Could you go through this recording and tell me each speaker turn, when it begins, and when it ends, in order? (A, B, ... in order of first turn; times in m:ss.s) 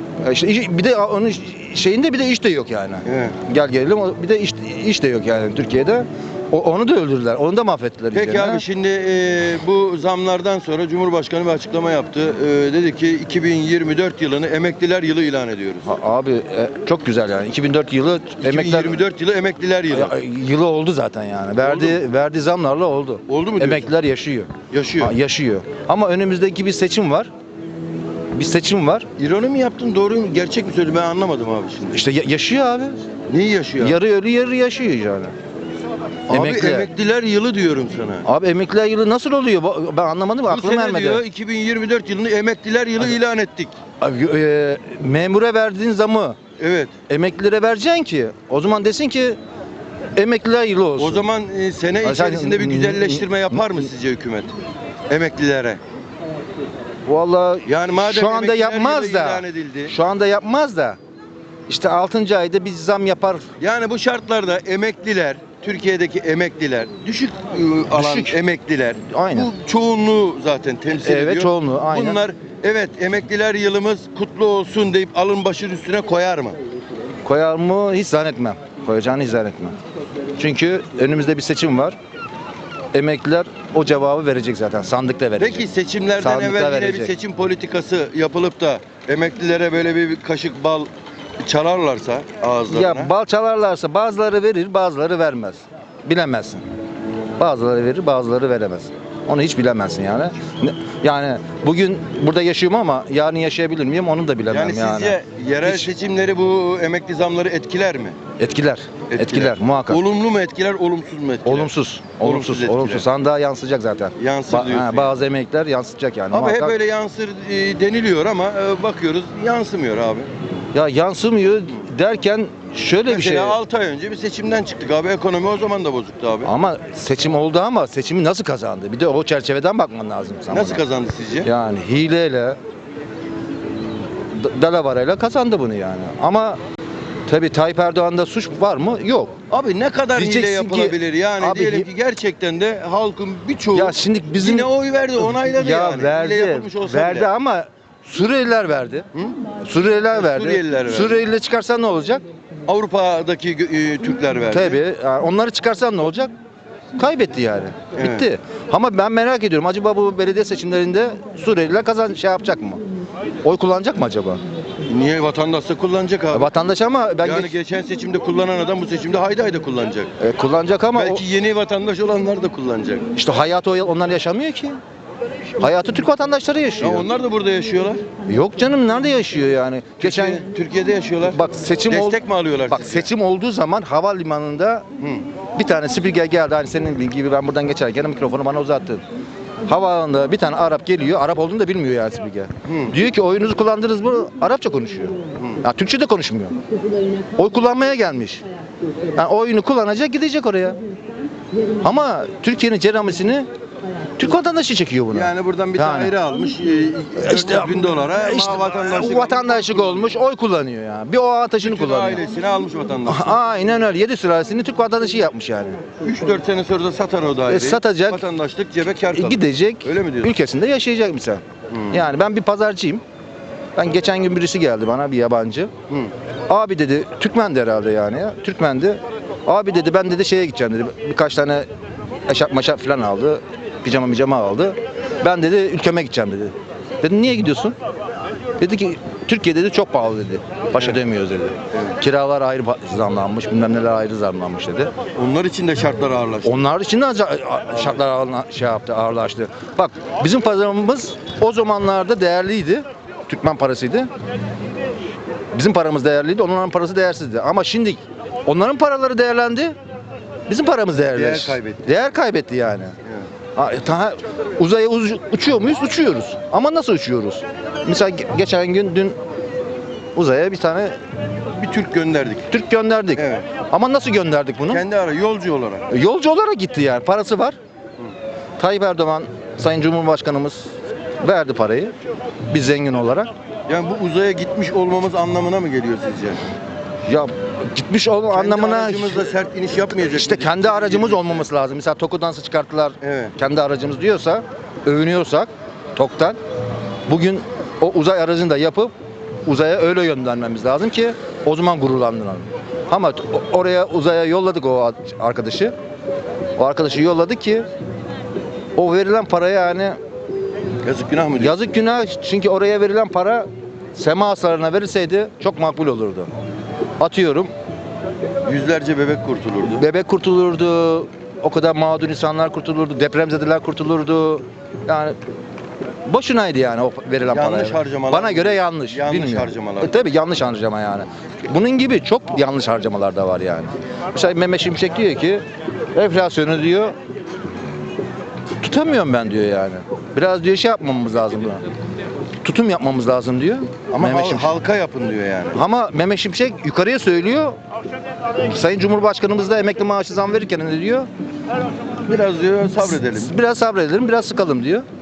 0:00.2-0:08.6 A
0:03.0-0:03.4 B
0:08.1-0:15.9 B
0:15.9-0:19.0 A
0:18.4-0:20.2 B
0:19.9-0:27.3 A
0:21.6-0:22.0 B
0:23.3-0:23.9 B
0:24.7-0:25.2 B
0:28.3-0:29.1 A
0:29.2-0:32.0 B
0:31.9-0:33.0 A
0:33.3-0:34.0 B
0:33.8-0:35.4 A
0:36.3-0:38.3 B
0:36.3-0:36.9 A
0:38.2-0:41.2 A
0:40.5-0:43.8 B
0:44.0-0:46.4 A
0:46.6-0:46.9 B
0:47.1-0:49.4 A
0:50.2-0:51.2 A
0:51.0-0:54.5 B
0:52.0-0:53.3 A
0:55.1-0:55.8 B
0:57.1-1:01.0 A
0:57.6-0:59.9 B
1:01.7-1:03.5 A
1:03.6-1:16.6 B
1:07.9-1:08.4 A
1:09.0-1:09.5 A
1:11.0-1:12.2 A
1:17.2-1:19.8 A
1:20.4-1:22.0 A
1:22.9-1:25.7 A
1:25.4-1:30.9 B
1:26.2-1:27.1 A
1:31.4-1:33.1 B
1:32.7-1:36.6 A
1:37.4-1:45.9 A
1:44.5-1:48.2 B
1:48.4-1:50.0 A
1:49.1-1:53.1 B
1:51.4-1:56.8 A
1:54.2-1:55.1 B
1:56.3-2:00.3 B
2:00.7-2:03.6 A
2:03.1-2:06.5 B
2:06.4-2:10.8 A
2:10.5-2:11.5 B
2:11.4-2:12.6 A
2:14.3-2:16.6 A
2:17.3-2:19.4 A
2:19.5-2:27.3 B
2:20.2-2:21.9 A
2:23.7-2:24.7 A
2:25.2-2:29.1 A
2:29.6-2:32.2 A
2:30.1-2:31.2 B
2:32.7-2:34.8 B
2:34.5-2:36.3 A
2:37.0-2:42.8 A
2:38.0-2:38.3 B
2:43.4-2:44.4 A
2:44.9-2:46.5 B
2:46.3-2:47.5 A
2:47.2-2:50.1 B
2:50.2-2:51.2 A
2:50.9-2:53.1 B
2:53.2-2:54.8 A
2:55.6-2:57.1 A
2:56.8-2:58.0 B
2:58.3-3:00.4 A
3:00.0-3:03.1 B
3:01.2-3:04.8 A
3:05.6-3:09.0 A
3:09.7-3:16.6 A
3:12.7-3:12.9 B
3:15.4-3:15.6 B
3:17.4-3:18.4 A
3:19.2-3:20.8 A
3:21.8-3:23.5 A
3:24.2-3:26.2 A
3:25.1-3:30.1 B
3:27.2-3:32.2 A
3:31.6-3:33.4 B
3:33.1-3:35.8 A
3:36.0-3:40.3 B
3:37.5-3:38.2 A
3:39.1-3:43.0 A
3:41.7-3:42.0 B
3:43.8-3:45.7 A
3:46.5-3:51.7 A
3:52.3-3:57.8 A
3:58.6-4:04.9 A
4:05.2-4:06.6 B
4:06.4-4:14.1 A
4:15.5-4:19.8 A
4:20.5-4:22.9 A
4:21.0-4:21.9 B
4:23.6-4:29.2 A
4:30.2-4:31.0 A
4:31.5-4:32.5 B
4:32.5-4:34.8 A
4:33.2-4:33.5 B
4:34.7-4:35.9 B
4:35.9-4:37.6 A
4:38.6-4:41.9 A
4:42.5-4:43.3 A
4:43.7-4:46.4 B
4:47.1-4:49.4 A
4:48.3-4:51.5 B
4:49.9-4:56.4 A
4:53.0-4:53.4 B
4:57.1-4:58.9 A
4:59.5-5:05.7 A
5:06.6-5:07.7 A
5:08.8-5:10.0 A
5:10.8-5:11.6 B
5:11.4-5:16.3 A
5:17.0-5:17.5 A
5:18.4-5:19.8 B
5:19.7-5:25.2 A
5:26.1-5:35.4 A
5:27.2-5:29.9 B
5:35.9-5:37.0 A
5:38.6-5:41.6 A
5:42.4-5:44.5 A
5:43.9-5:45.6 B
5:45.5-5:47.6 A
5:48.4-5:51.1 A
5:52.1-5:53.4 B
5:52.8-5:54.9 A